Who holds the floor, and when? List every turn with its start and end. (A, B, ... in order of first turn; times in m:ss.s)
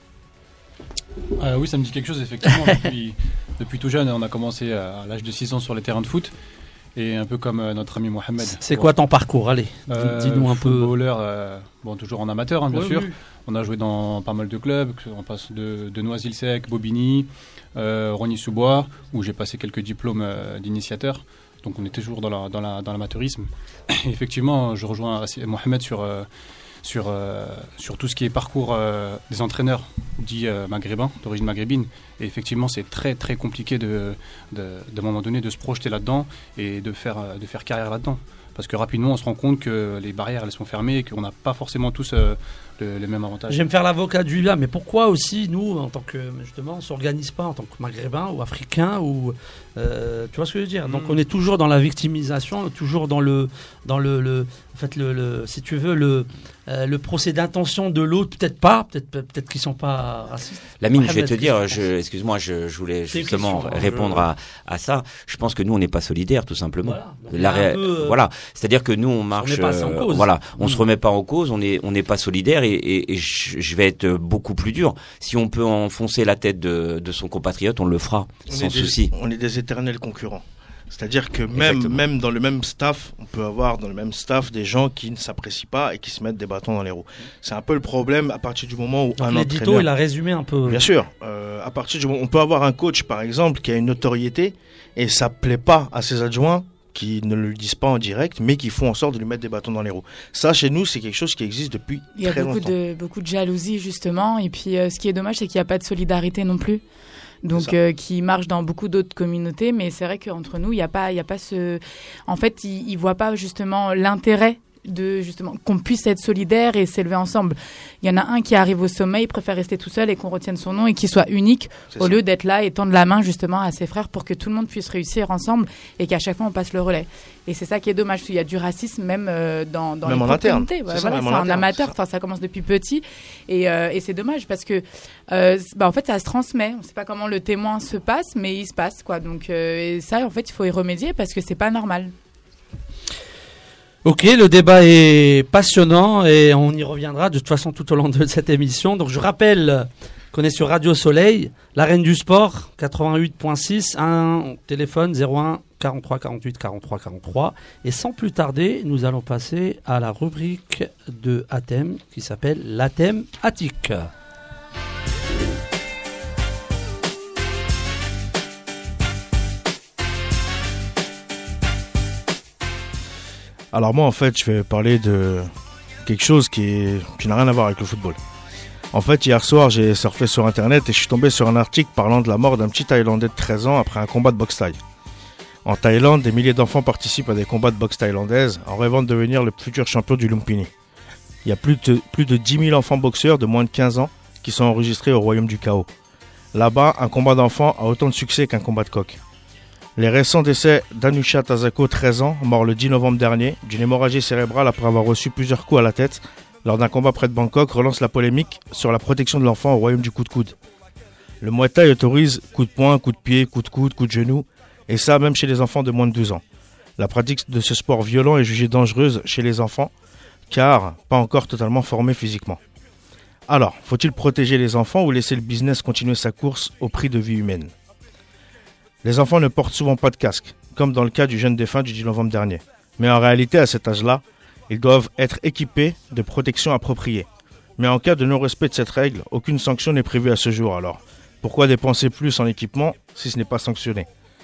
0:01.4-0:06.3 A
0:06.9-0:08.8 A
0:08.6-0:10.9 B
0:09.9-0:26.3 A
0:12.7-0:13.1 B
0:26.8-0:43.6 A
0:43.5-1:01.8 B
0:50.9-0:51.2 A
1:00.8-1:19.1 C
1:03.1-1:04.2 B
1:06.8-1:08.2 B
1:09.4-1:10.8 B
1:18.5-1:29.9 D
1:21.5-1:22.0 C
1:29.2-1:30.8 B
1:30.6-1:42.7 D
1:42.2-1:46.8 E
1:47.4-2:22.1 E
2:01.9-2:02.2 D
2:10.0-2:11.9 D
2:24.0-2:44.1 B
2:53.7-2:55.5 D
2:56.0-2:58.2 D
2:58.9-3:04.8 D
3:05.6-3:10.7 D
3:11.4-3:15.9 D
3:16.5-3:19.2 D
3:20.0-3:30.6 D
3:31.4-3:36.4 D
3:37.0-3:39.9 D
3:40.5-3:42.6 D
3:43.5-3:47.7 D
3:49.0-3:57.3 D
3:57.8-4:04.1 D